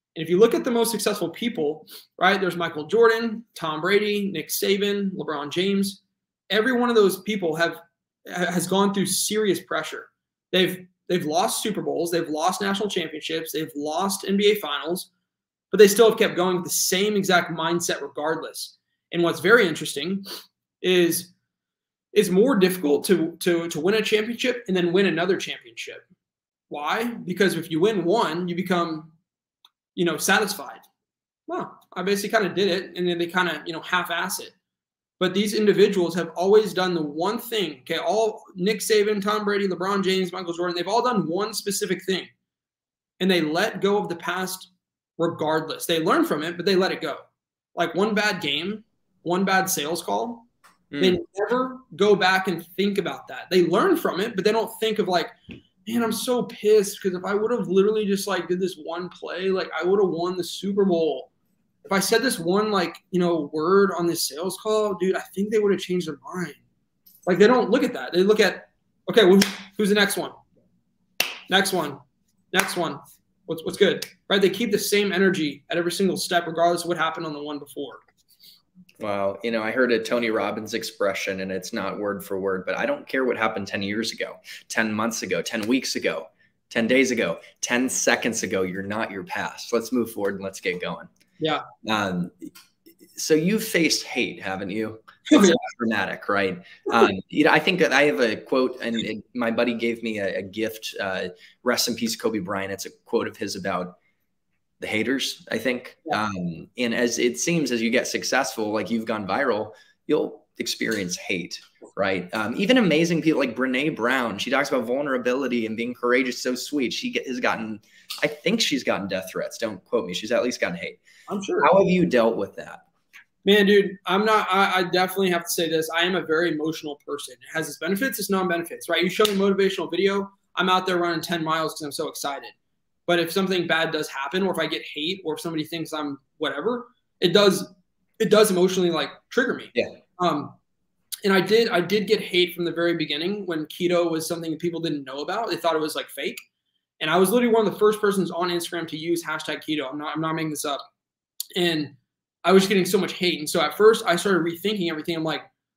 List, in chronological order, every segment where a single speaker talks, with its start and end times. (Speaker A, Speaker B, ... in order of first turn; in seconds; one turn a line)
Speaker A: 0.1-15.1
Speaker A: 15.7-20.2
Speaker A: 20.8-21.3
Speaker A: 22.1-26.0
Speaker A: 26.7-29.1
Speaker A: 29.9-30.9
Speaker A: 31.5-34.5
Speaker A: 35.2-42.3
Speaker A: 43.2-47.2
Speaker A: 47.7-50.5
Speaker B: 50.9-51.2
Speaker A: 51.0-61.3
Speaker A: 61.8-66.6
Speaker A: 67.2-70.3
Speaker A: 71.5-72.0
Speaker A: 72.5-78.0
Speaker B: 79.0-91.1
Speaker B: 91.8-92.5
Speaker B: 93.2-104.0
Speaker A: 95.3-95.6
Speaker B: 104.8-121.0
Speaker A: 121.3-121.7
Speaker B: 121.6-122.8
Speaker A: 123.4-132.5
Speaker A: 133.1-140.5
Speaker A: 141.2-146.4
Speaker A: 147.0-150.8
Speaker A: 151.5-155.5